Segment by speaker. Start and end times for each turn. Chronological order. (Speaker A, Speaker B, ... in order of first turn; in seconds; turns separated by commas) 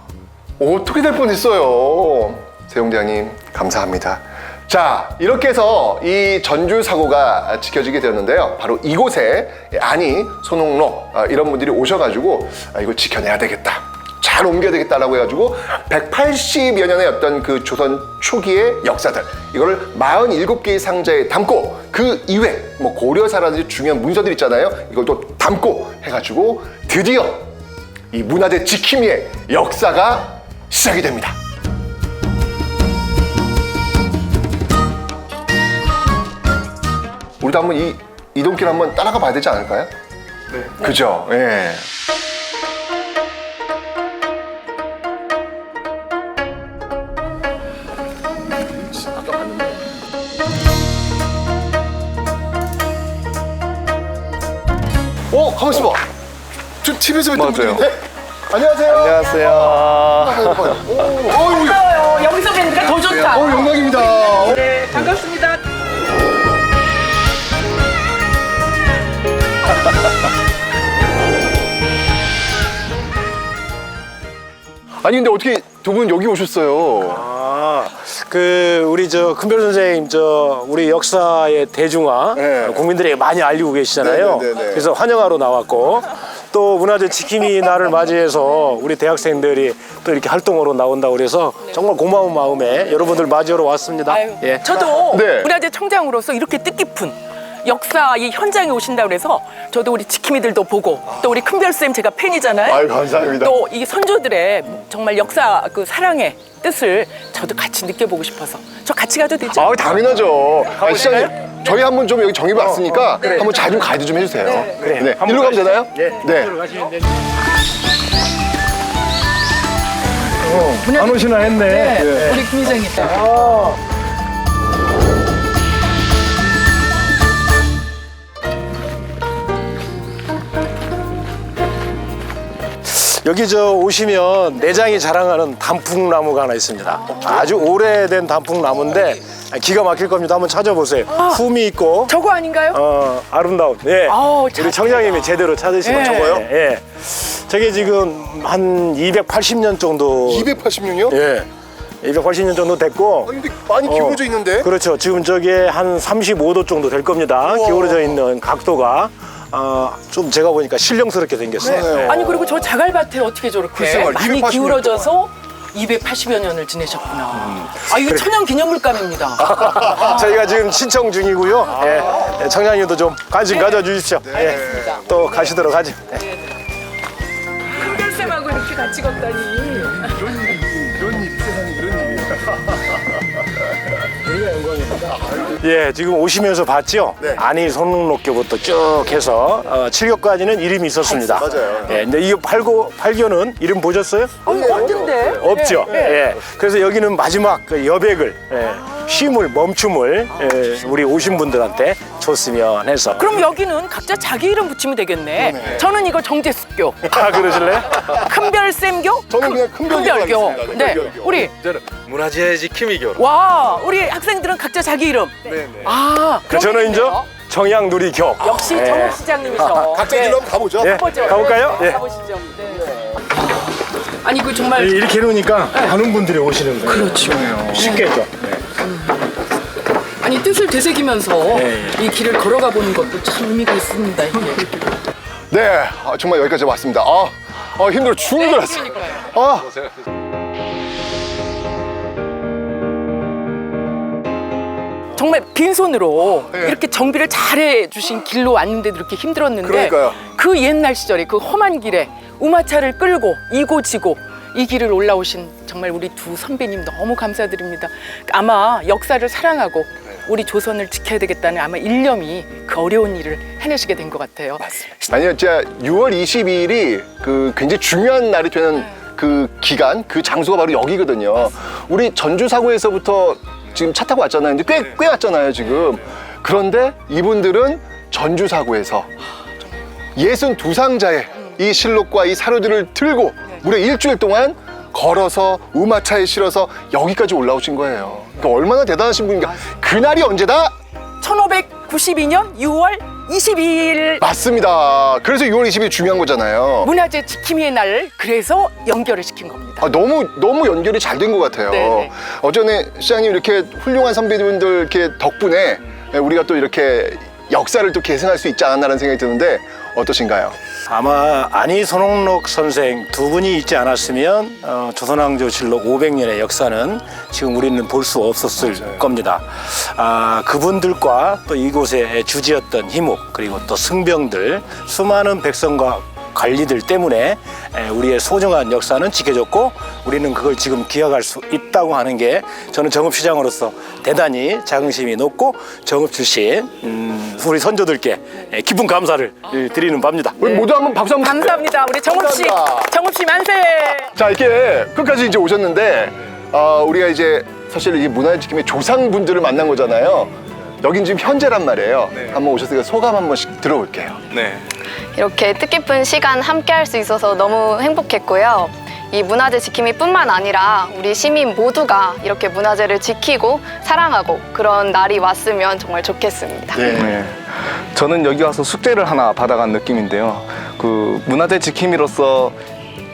Speaker A: 0.6-27.5, Speaker A: 28.1-31.4, Speaker A: 37.4-39.9, Speaker A: 40.7-41.9, Speaker A: 55.3-56.0, Speaker A: 56.8-58.0, Speaker B: 57.3-57.9, Speaker A: 58.5-61.9, Speaker B: 58.8-60.8, Speaker C: 61.4-65.6, Speaker A: 63.1-64.8, Speaker A: 75.0-77.2, Speaker D: 77.1-94.6, Speaker A: 82.3-82.9, Speaker A: 84.0-84.9, Speaker C: 94.1-109.9, Speaker A: 95.1-95.5, Speaker A: 102.7-103.6, Speaker A: 109.5-116.5, Speaker D: 110.7-111.2, Speaker C: 110.8-111.5, Speaker D: 112.5-113.4, Speaker C: 113.2-113.8, Speaker D: 114.8-117.0, Speaker D: 120.4-122.4, Speaker C: 120.8-123.3, Speaker D: 123.0-123.7, Speaker D: 132.8-142.2, Speaker C: 141.1-141.4, Speaker C: 142.1-142.8, Speaker D: 142.7-150.5, Speaker C: 144.1-146.4, Speaker A: 146.2-146.4, Speaker A: 150.2-151.2, Speaker D: 151.1-151.5, Speaker D: 152.0-162.2, Speaker A: 153.2-154.7, Speaker A: 157.4-158.2, Speaker A: 161.6-162.7, Speaker C: 161.6-170.0, Speaker A: 163.8-165.1, Speaker D: 167.4-168.2, Speaker D: 169.4-176.2, Speaker A: 174.3-175.0, Speaker C: 177.8-180.1, Speaker A: 180.1-182.5, Speaker D: 184.2-203.3, Speaker C: 191.1-191.6, Speaker A: 191.3-192.0, Speaker C: 194.4-196.2, Speaker A: 194.5-194.9, Speaker C: 203.2-207.1, Speaker A: 205.4-205.8, Speaker D: 207.0-208.1, Speaker C: 207.9-211.5, Speaker A: 209.3-211.5, Speaker E: 211.6-213.2, Speaker C: 213.2-217.3, Speaker E: 215.5-215.9, Speaker D: 216.5-219.9, Speaker C: 218.4-222.9, Speaker A: 219.8-221.2, Speaker D: 220.8-222.0, Speaker C: 224.1-225.0, Speaker D: 224.7-228.6, Speaker C: 225.7-226.0, Speaker C: 226.8-228.2, Speaker A: 227.3-227.8, Speaker C: 230.2-234.7, Speaker D: 231.5-231.9, Speaker A: 235.5-239.8, Speaker C: 238.3-239.3, Speaker C: 245.2-264.9, Speaker A: 249.6-250.2, Speaker A: 264.8-279.1, Speaker A: 280.1-290.7, Speaker C: 291.2-294.2, Speaker A: 294.2-296.9, Speaker C: 296.8-299.9, Speaker A: 299.8-310.6, Speaker C: 301.7-302.1, Speaker D: 310.9-340.4, Speaker A: 340.4-342.9, Speaker C: 341.2-344.1, Speaker A: 344.1-354.2, Speaker B: 354.3-354.6, Speaker F: 355.1-366.9, Speaker A: 366.8-367.1, Speaker B: 366.9-372.6